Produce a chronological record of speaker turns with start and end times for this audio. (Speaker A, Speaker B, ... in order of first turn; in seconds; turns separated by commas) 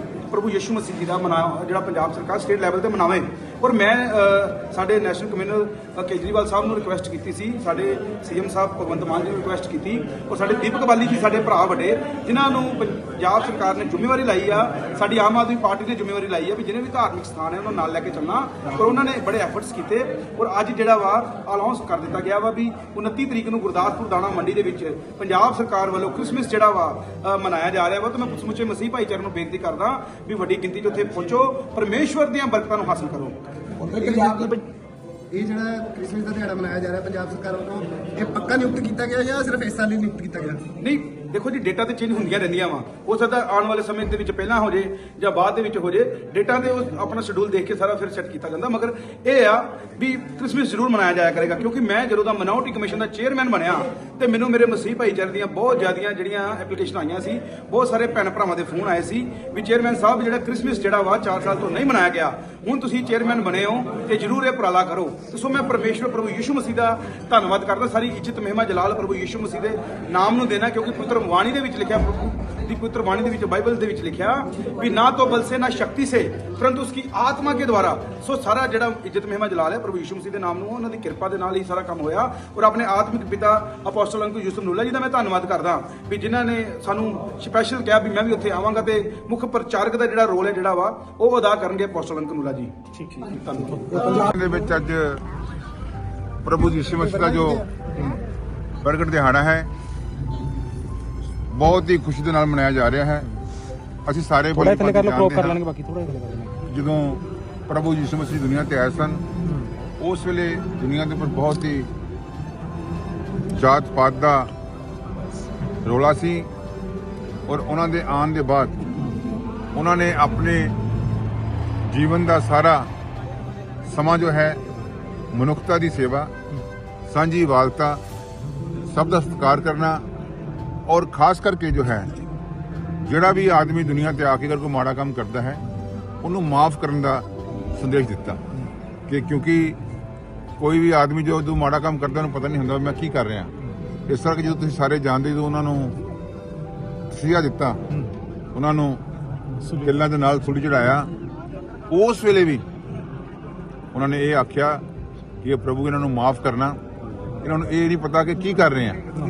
Speaker A: 0.3-33.4, Speaker B: 33.8-34.5, Speaker B: 35.3-40.6, Speaker A: 40.8-94.3, Speaker C: 93.9-95.2, Speaker C: 96.4-97.7, Speaker B: 97.2-97.6, Speaker C: 98.8-99.7, Speaker C: 101.5-103.3, Speaker C: 104.1-105.6, Speaker D: 104.5-106.5, Speaker C: 106.7-109.2, Speaker C: 110.0-111.9, Speaker C: 113.6-114.5, Speaker C: 115.8-116.5, Speaker C: 117.5-118.8, Speaker C: 119.7-120.8, Speaker C: 121.8-122.9, Speaker C: 123.9-124.6, Speaker C: 125.3-126.3, Speaker C: 127.1-128.0, Speaker C: 128.9-130.0, Speaker C: 130.9-132.1, Speaker C: 133.1-135.6, Speaker C: 136.2-138.4, Speaker C: 139.1-139.8, Speaker C: 140.6-143.5, Speaker C: 144.1-146.0, Speaker C: 147.1-147.9, Speaker C: 148.5-149.0, Speaker C: 149.7-151.1, Speaker C: 151.9-152.6, Speaker C: 153.9-154.8, Speaker C: 155.4-156.8, Speaker C: 157.4-159.0